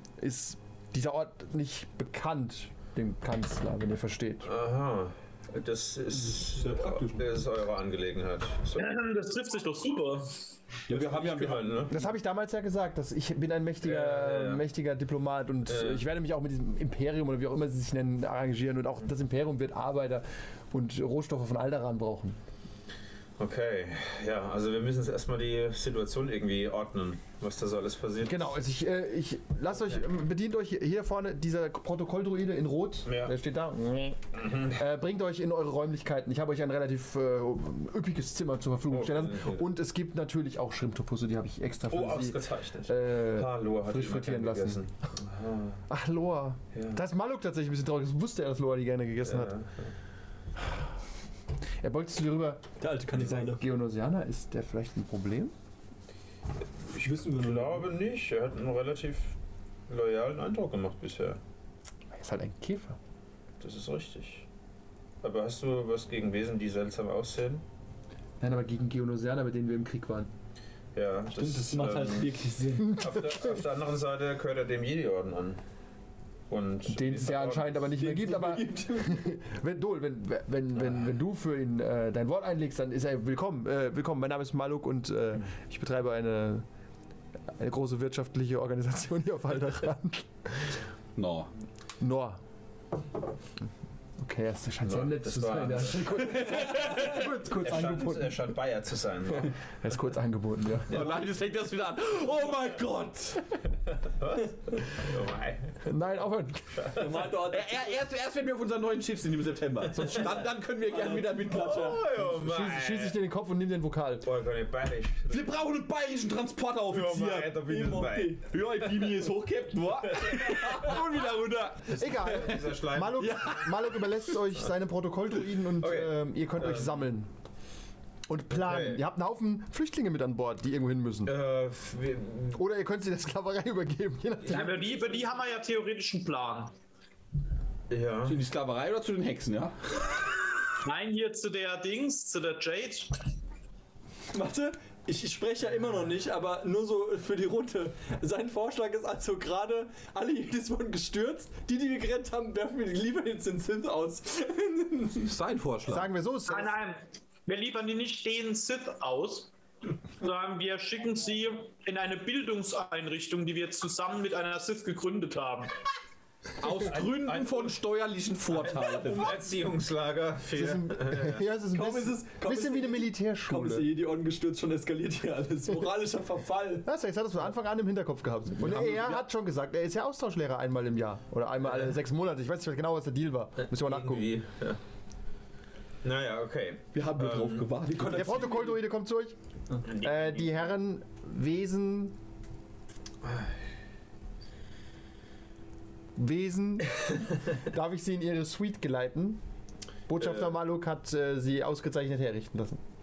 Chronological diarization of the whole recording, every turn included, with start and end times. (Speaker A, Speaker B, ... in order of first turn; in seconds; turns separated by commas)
Speaker A: 0.2-4.5, Speaker B: 4.4-9.0, Speaker C: 6.2-7.2, Speaker D: 8.8-10.5, Speaker E: 10.9-12.0, Speaker B: 10.9-11.9, Speaker A: 11.9-22.4, Speaker B: 13.8-14.6, Speaker B: 15.7-16.0, Speaker B: 23.4-28.5, Speaker A: 28.2-44.8, Speaker B: 33.0-33.3, Speaker B: 34.4-34.7, Speaker B: 38.9-39.6, Speaker B: 41.9-45.8, Speaker A: 45.9-49.5, Speaker B: 46.7-47.0, Speaker B: 49.2-49.9, Speaker A: 51.8-55.5, Speaker C: 52.8-53.6, Speaker B: 56.9-59.4, Speaker C: 57.0-57.9, Speaker B: 59.9-61.4, Speaker A: 62.1-63.0, Speaker B: 63.6-64.5, Speaker B: 65.2-67.6, Speaker A: 68.4-70.3, Speaker B: 70.9-72.3, Speaker C: 71.3-73.0, Speaker A: 72.8-73.4, Speaker B: 72.9-75.6, Speaker B: 76.5-77.8, Speaker A: 76.9-86.7, Speaker C: 77.9-79.2, Speaker A: 87.6-90.8, Speaker E: 91.2-91.5, Speaker A: 92.0-92.4, Speaker A: 94.2-98.5, Speaker B: 94.8-99.5, Speaker A: 99.3-101.0, Speaker E: 100.9-103.6, Speaker B: 100.9-101.2, Speaker B: 104.0-105.7, Speaker A: 105.8-106.9, Speaker B: 106.8-107.0, Speaker C: 106.9-107.9, Speaker E: 107.3-112.0, Speaker C: 110.8-112.0, Speaker B: 111.6-113.2, Speaker A: 112.2-114.3, Speaker B: 114.2-115.5, Speaker E: 115.3-117.5, Speaker B: 116.9-118.4, Speaker C: 117.1-118.4, Speaker E: 118.4-123.6, Speaker B: 120.2-120.8, Speaker A: 121.9-127.3, Speaker B: 122.0-123.9, Speaker B: 125.8-127.0, Speaker A: 128.3-131.3, Speaker B: 128.5-129.0, Speaker B: 131.2-132.6, Speaker A: 132.5-134.8, Speaker D: 134.5-136.7, Speaker B: 134.5-135.2, Speaker B: 137.9-138.4, Speaker E: 138.2-139.7, Speaker D: 140.8-143.2, Speaker C: 144.3-155.3, Speaker E: 155.2-156.1, Speaker A: 155.8-156.7, Speaker D: 156.5-159.5, Speaker D: 160.2-165.7, Speaker E: 166.6-169.4, Speaker B: 166.8-167.8, Speaker B: 168.5-171.5, Speaker A: 170.5-173.9, Speaker C: 171.7-176.9, Speaker A: 176.8-184.3, Speaker E: 178.6-179.2, Speaker B: 183.6-184.8, Speaker B: 186.0-187.7, Speaker E: 186.9-188.4, Speaker C: 187.8-188.8, Speaker A: 188.1-189.3, Speaker B: 189.8-190.5, Speaker A: 189.9-192.2, Speaker B: 193.2-193.5, Speaker A: 196.2-199.4, Speaker A: 200.1-202.8, Speaker B: 200.2-200.5